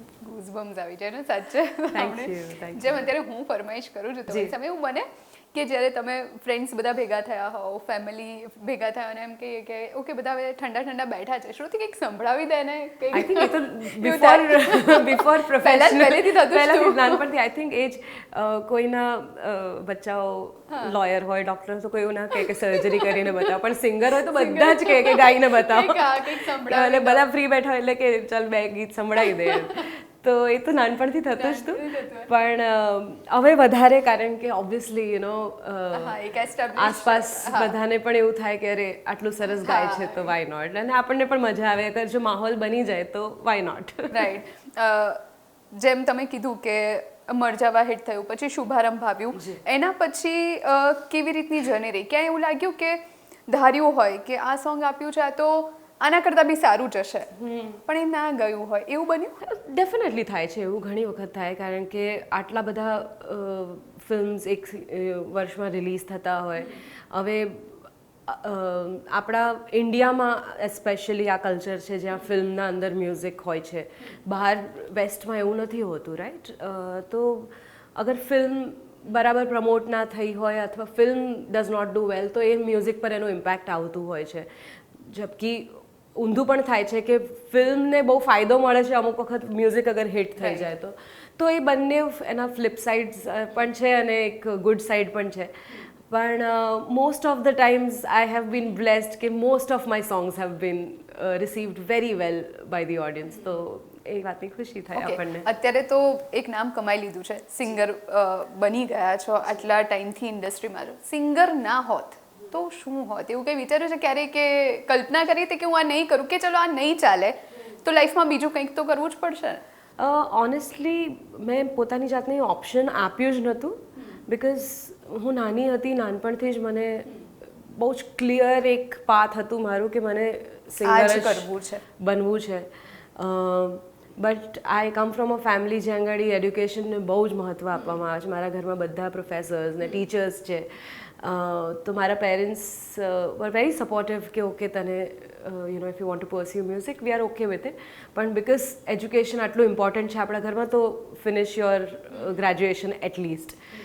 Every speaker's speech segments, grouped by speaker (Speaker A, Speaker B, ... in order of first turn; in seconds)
Speaker A: 0.2-17.2, 20.7-20.9, 22.4-23.5, 24.2-27.2, 29.2-29.9, 31.4-32.3, 35.9-37.7, 39.5-40.3, 44.1-57.3, 57.8-59.4, 90.4-90.7, 104.9-119.6, 130.8-131.8
Speaker B: 1.9-3.1, 4.3-4.5, 13.1-36.2, 36.7-44.3, 49.3-49.6, 57.4-57.8, 59.4-84.5, 85.0-95.5, 96.1-105.5, 120.0-153.6